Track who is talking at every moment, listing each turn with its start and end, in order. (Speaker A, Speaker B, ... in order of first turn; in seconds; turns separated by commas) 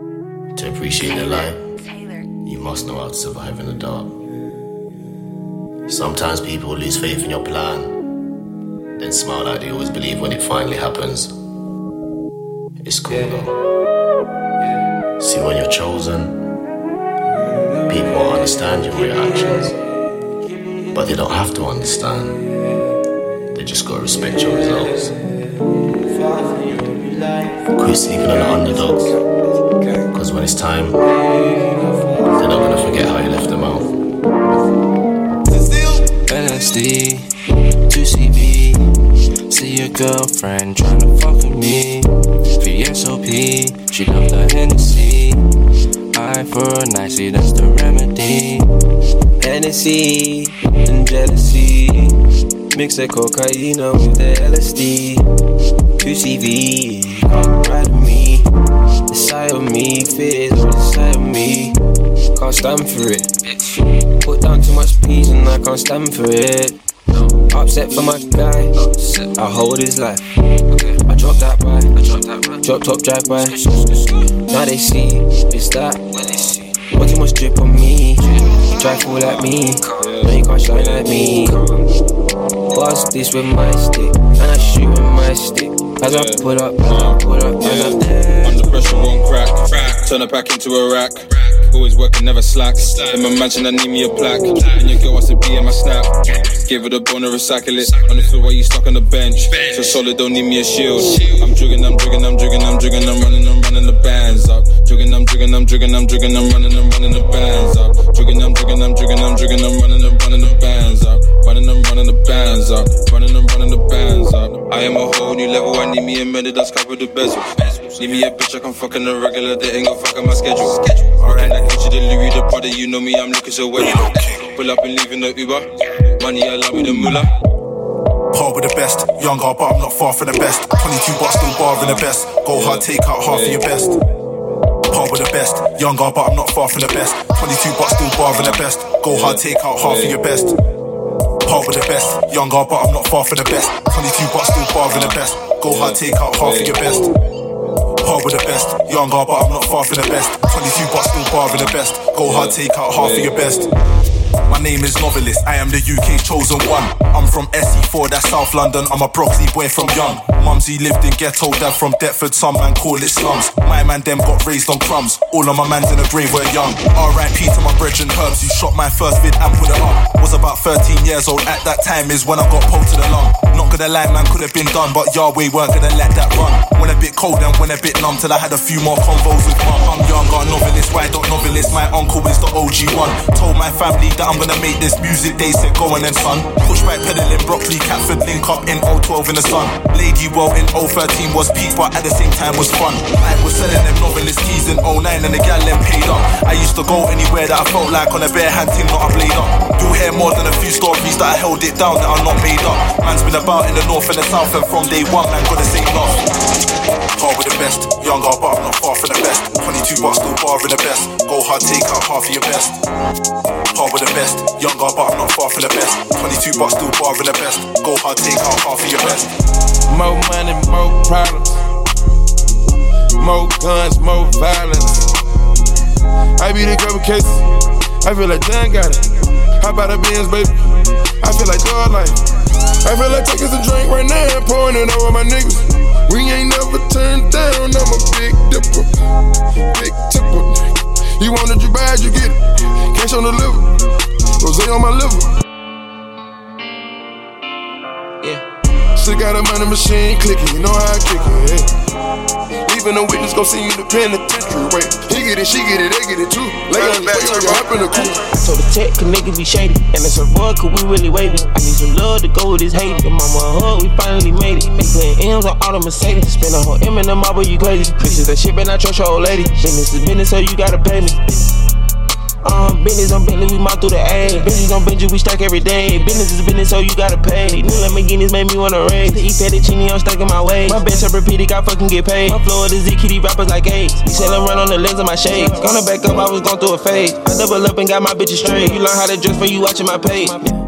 Speaker A: 0.6-1.6, Speaker A: 2.4-4.2, Speaker A: 5.9-7.9, Speaker A: 9.0-11.3, Speaker A: 12.8-13.5, Speaker A: 15.2-16.4, Speaker A: 17.9-19.7, Speaker A: 20.9-22.4, Speaker A: 23.5-25.1, Speaker A: 27.8-29.2, Speaker A: 30.1-31.0, Speaker A: 32.4-33.9, Speaker B: 36.3-37.3, Speaker B: 37.9-38.8, Speaker B: 39.5-45.4, Speaker B: 46.1-48.7, Speaker B: 49.4-52.1, Speaker B: 52.7-55.2, Speaker B: 56.0-58.5, Speaker B: 59.1-61.8, Speaker B: 62.4-66.8, Speaker B: 67.5-73.6, Speaker B: 74.5-76.3, Speaker B: 76.8-81.7, Speaker C: 79.2-80.3, Speaker B: 82.7-89.0, Speaker C: 86.0-125.7, Speaker D: 123.9-124.3, Speaker C: 126.2-127.3, Speaker D: 128.3-133.9, Speaker C: 132.5-133.6, Speaker D: 134.9-140.6, Speaker C: 139.1-140.1, Speaker D: 141.4-147.1, Speaker C: 145.7-146.7, Speaker D: 148.0-153.7, Speaker C: 152.2-153.3, Speaker D: 154.5-206.2, Speaker D: 207.2-212.8, Speaker D: 213.7-219.3, Speaker E: 219.9-221.6, Speaker E: 223.2-225.1, Speaker E: 226.4-227.4, Speaker E: 228.0-229.0, Speaker E: 229.6-230.6, Speaker E: 231.2-232.2, Speaker E: 232.8-238.9, Speaker E: 239.7-240.6, Speaker E: 241.2-242.4, Speaker E: 242.9-243.7, Speaker E: 244.4-245.3, Speaker E: 249.0-251.7, Speaker E: 252.7-258.2, Speaker F: 258.0-271.3, Speaker F: 272.4-290.4